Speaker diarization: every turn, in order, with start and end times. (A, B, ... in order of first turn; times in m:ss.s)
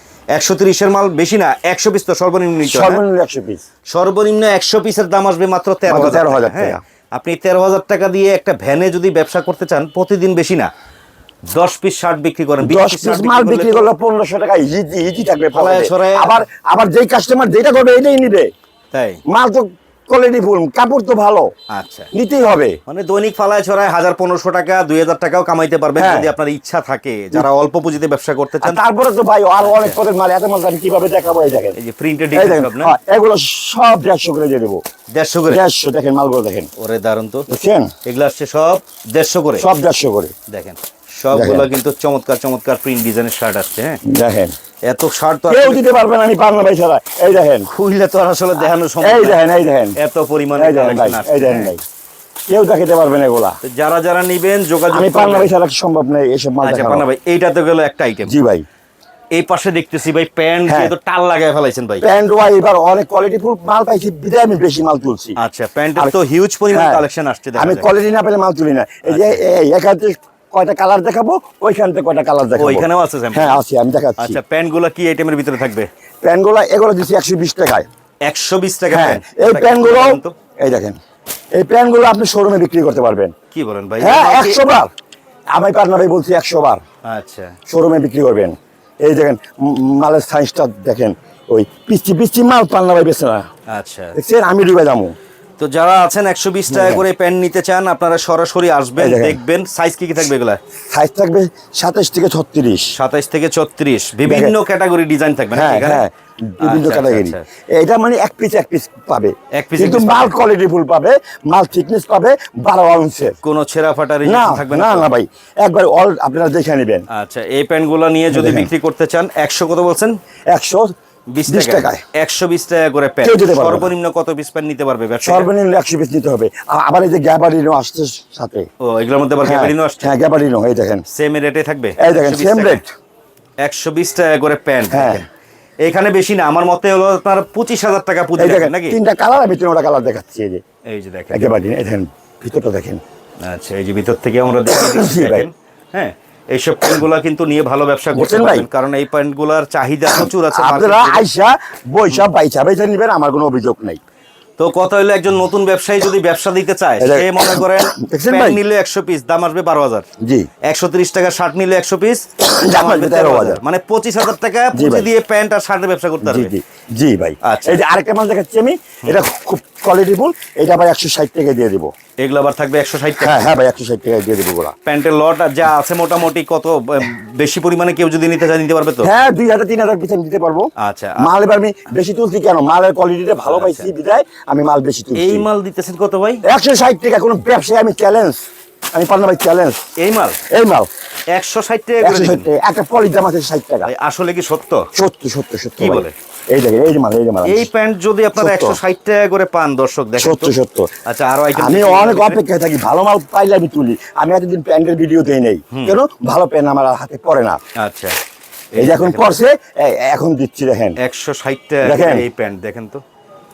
0:00.3-0:03.0 A
0:02.6-0:03.6 B
0:03.9-0:10.7 A
0:05.9-0:06.8 B
0:11.5-0:13.9 A
0:12.6-0:18.5 B
0:15.5-0:16.4 A
0:18.9-0:19.2 A
0:19.3-0:21.5 B
0:21.7-0:22.1 A
0:22.1-0:22.8 B
0:22.9-0:28.8 A
0:26.0-0:26.3 B
0:28.6-0:31.8 B
0:29.6-0:30.0 A
0:31.8-0:33.0 A
0:32.3-0:34.8 B
0:35.1-0:35.6 A
0:35.5-0:36.7 B
0:36.8-0:37.4 A
0:37.5-0:37.9 B
0:38.0-0:39.6 A
0:39.6-0:40.3 B
0:40.5-0:44.0 A
0:41.3-0:41.7 B
0:44.0-0:44.5 B
0:44.9-0:45.8 A
0:45.5-0:47.7 B
0:47.7-0:49.4 A
0:49.0-0:50.0 B
0:50.0-0:51.7 A
0:50.6-0:51.8 B
0:52.5-0:53.6 B
0:53.6-0:55.5 A
0:54.9-0:57.0 B
0:56.6-0:58.3 A
0:58.3-0:58.6 B
0:59.3-1:02.0 A
1:00.6-1:00.9 B
1:02.0-1:05.4 B
1:05.4-1:07.9 A
1:06.7-1:07.0 B
1:07.6-1:14.4 B
1:09.0-1:09.4 A
1:12.6-1:13.6 A
1:14.2-1:15.9 A
1:16.2-1:17.9 B
1:18.3-1:20.3 A
1:18.9-1:21.0 B
1:21.5-1:23.3 B
1:23.5-1:24.6 A
1:24.0-1:24.9 B
1:25.5-1:26.8 B
1:27.0-1:27.5 A
1:27.7-1:33.4 B
1:33.7-1:34.2 A
1:34.1-1:35.1 B
1:35.6-1:40.6 A
1:36.7-1:37.0 B
1:39.0-1:39.4 B
1:40.9-1:42.9 B
1:42.9-1:46.0 A
1:44.2-1:44.5 B
1:45.5-1:53.4 B
1:46.6-1:47.4 A
1:49.6-1:50.3 A
1:53.4-1:55.1 A
1:54.2-1:57.0 B
1:57.1-2:00.1 A
1:58.3-1:58.7 B
2:00.5-2:00.9 B
2:01.3-2:05.5 A
2:01.5-2:02.0 B
2:03.2-2:03.9 B
2:05.2-2:08.7 B
2:08.8-2:10.1 A
2:09.4-2:11.0 B
2:11.1-2:12.8 A
2:12.0-2:12.9 B
2:13.6-2:15.2 A
2:14.9-2:15.2 B
2:15.8-2:19.0 A
2:18.4-2:20.6 B
2:20.9-2:21.6 A
2:21.3-2:23.0 B
2:23.4-2:31.2 A
2:24.7-2:25.5 B
2:28.1-2:28.6 B
2:30.0-2:34.0 B
2:34.6-2:40.0 A
2:37.0-2:38.6 B
2:40.2-2:40.5 B
2:40.7-2:46.5 A
2:42.4-2:43.6 B
2:44.7-2:45.1 B
2:46.2-2:51.9 B
2:47.4-2:47.8 A
2:52.2-2:53.4 A
2:53.2-2:54.7 B
2:54.8-2:59.1 A
2:59.0-3:00.7 B
3:00.8-3:01.3 A
3:01.2-3:05.5 B
3:03.4-3:03.9 A
3:05.2-3:06.4 A
3:06.4-3:08.4 B
3:08.9-3:09.8 B
3:10.0-3:10.4 A
3:10.5-3:10.9 B
3:11.3-3:12.5 A
3:12.0-3:13.9 B
3:13.9-3:14.8 A
3:14.9-3:17.7 B
3:15.8-3:16.1 A
3:17.4-3:20.5 A
3:18.4-3:18.8 B
3:20.2-3:20.9 B
3:21.0-3:22.4 A
3:21.6-3:27.6 B
3:25.7-3:26.0 A
3:27.8-3:28.2 A
3:28.8-3:29.3 A
3:28.8-3:31.0 B
3:31.0-3:33.0 A
3:31.8-3:32.2 B